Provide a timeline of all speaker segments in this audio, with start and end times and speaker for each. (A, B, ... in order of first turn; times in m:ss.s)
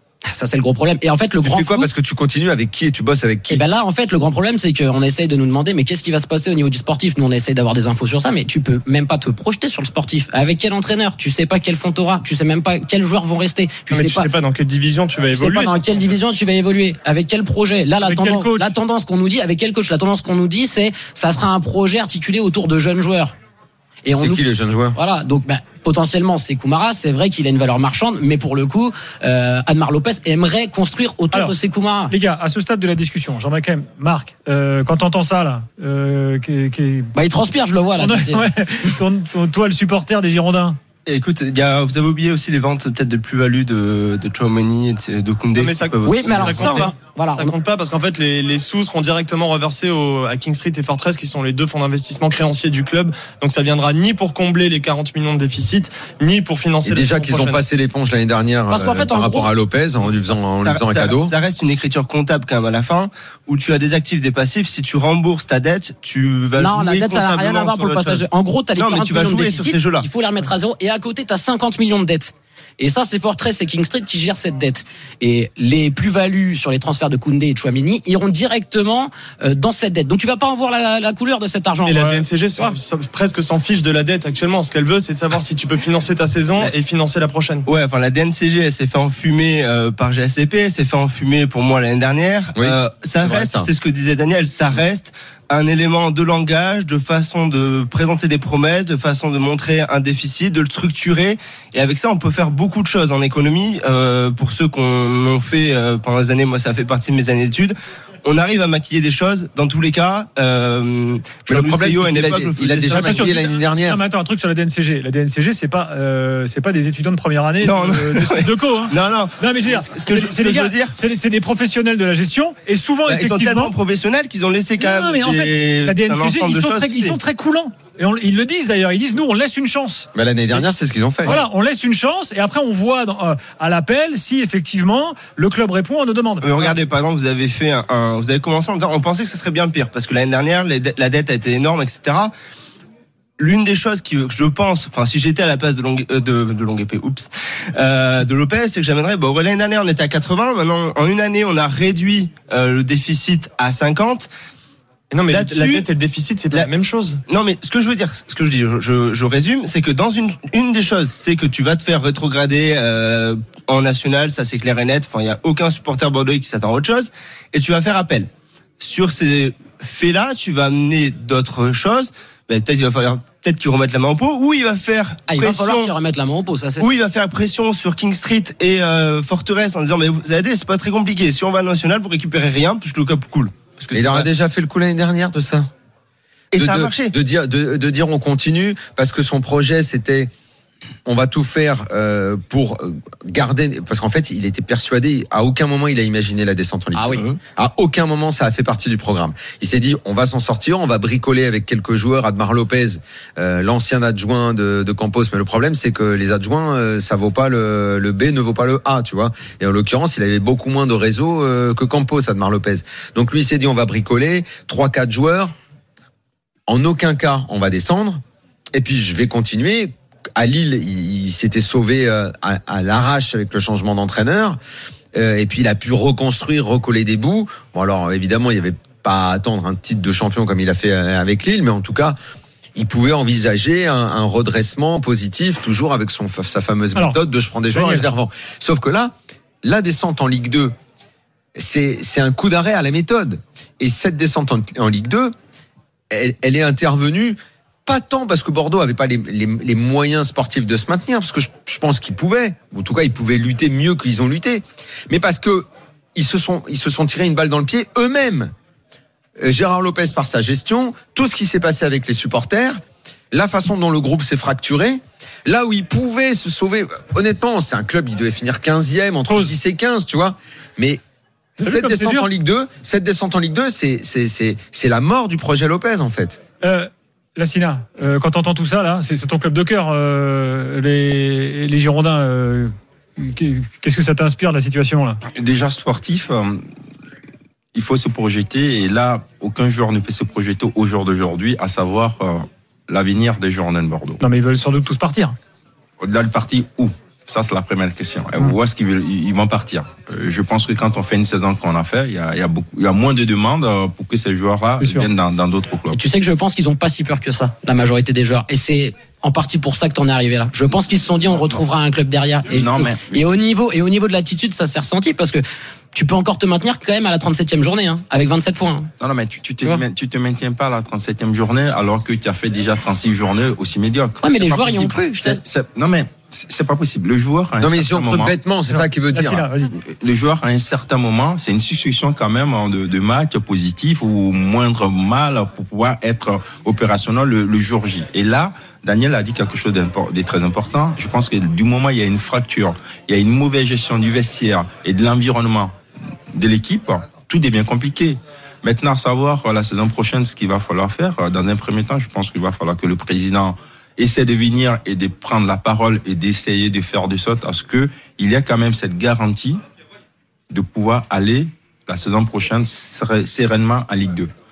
0:00.2-0:01.9 A
0:01.4-0:03.6 B
0:03.5-0:14.3 A
0:13.9-0:15.8 C
0:15.3-0:23.3 A
0:18.0-0:18.8 D
0:24.0-0:24.4 A
0:24.2-0:25.0 B
0:24.9-0:32.1 A
0:32.1-0:37.1 D
0:37.1-0:38.5 A
0:38.0-0:40.8 D
0:41.0-0:46.9 E
0:45.6-0:57.6 C
0:46.0-0:47.6 A
0:56.8-1:01.3 B
0:58.7-0:59.5 A
1:00.6-1:08.2 E
1:06.6-1:22.7 A
1:08.8-1:10.1 E
1:21.9-1:27.6 C
1:27.6-1:47.7 E
1:32.6-1:33.7 B
1:48.2-1:53.4 E
1:51.5-1:54.0 B
1:52.9-2:03.7 D
1:57.6-2:00.9 E
2:03.1-2:07.2 E
2:04.8-2:10.1 D
2:10.1-2:11.4 B
2:11.2-2:16.8 D
2:16.4-2:22.3 E
2:23.4-2:34.3 E
2:35.1-2:37.2 C
2:35.3-2:35.9 E
2:37.3-2:48.3 E
2:48.8-2:55.9 E
2:55.3-2:56.9 A
2:56.8-3:04.3 E
3:03.9-3:05.7 B
3:06.5-3:07.1 E
3:06.5-3:10.3 B
3:11.0-3:35.5 B
3:16.9-3:17.3 A
3:36.7-3:38.2 B
3:38.7-3:44.6 B
3:45.1-3:52.2 B
3:52.8-4:00.7 B
3:57.7-3:58.1 D
4:01.6-4:05.3 B
4:06.1-4:18.5 B
4:19.4-4:22.8 B
4:23.3-4:31.0 B
4:29.3-4:29.5 D
4:31.6-4:32.3 D
4:31.6-4:36.4 B
4:36.6-4:45.2 D
4:45.4-4:46.6 F
4:47.7-4:54.2 F
4:54.2-4:55.3 D
4:56.0-5:06.0 F
5:04.8-5:05.1 D
5:05.9-5:15.4 A
5:12.6-5:13.2 F
5:15.9-5:18.9 A
5:19.0-5:28.4 F
5:24.2-5:25.4 A
5:27.6-5:29.4 B
5:28.7-5:29.7 D
5:29.8-5:45.7 F
5:46.3-5:59.6 F
6:00.5-6:04.3 F